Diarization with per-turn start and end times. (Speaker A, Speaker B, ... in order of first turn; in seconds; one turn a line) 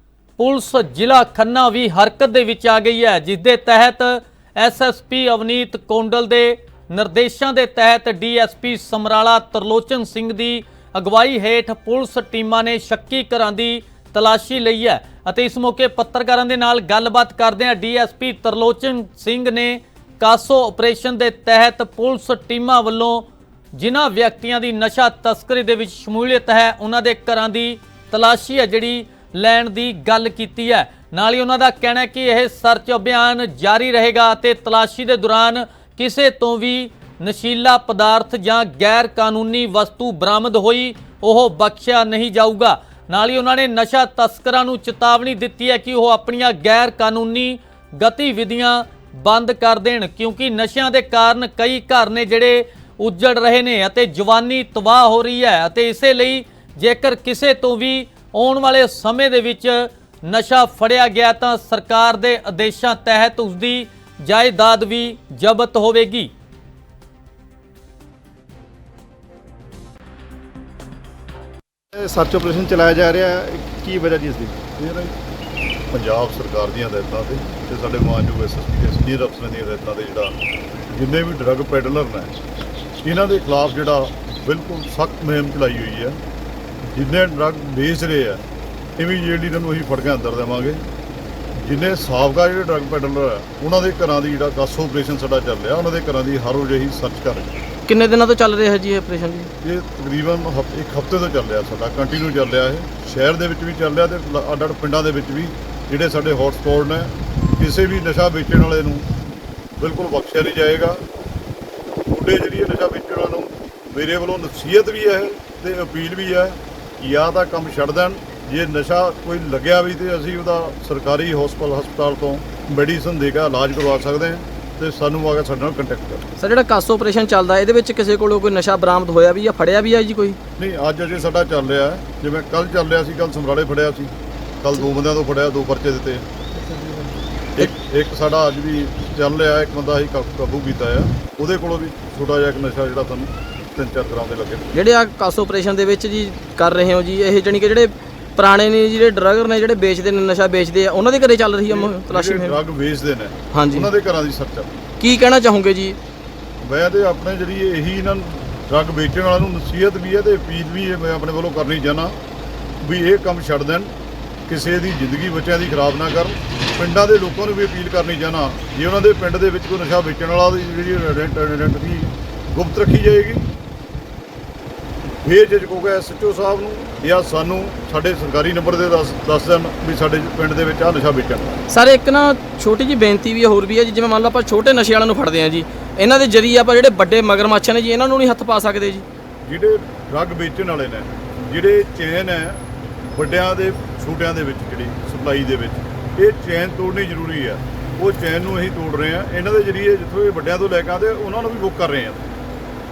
Speaker A: 0.4-66.3
Speaker B: 71.9-74.5
Speaker C: 74.8-75.2
Speaker C: 75.9-80.4
Speaker C: 80.9-82.3
Speaker C: 83.0-86.2
Speaker C: 86.8-88.4
Speaker C: 89.0-90.8
Speaker C: 91.6-97.6
Speaker D: 97.9-99.5
Speaker C: 99.6-109.1
Speaker C: 109.8-111.0
Speaker C: 112.1-126.2
Speaker D: 126.4-130.4
Speaker C: 130.6-136.3
Speaker B: 136.7-137.2
Speaker C: 137.6-144.7
Speaker D: 144.7-152.6
Speaker C: 151.7-154.7
Speaker D: 153.5-153.9
Speaker D: 155.0-156.0
Speaker C: 156.6-162.2
Speaker C: 162.8-163.9
Speaker C: 164.5-173.5
Speaker C: 175.2-181.6
Speaker D: 181.7-189.1
Speaker C: 189.5-202.3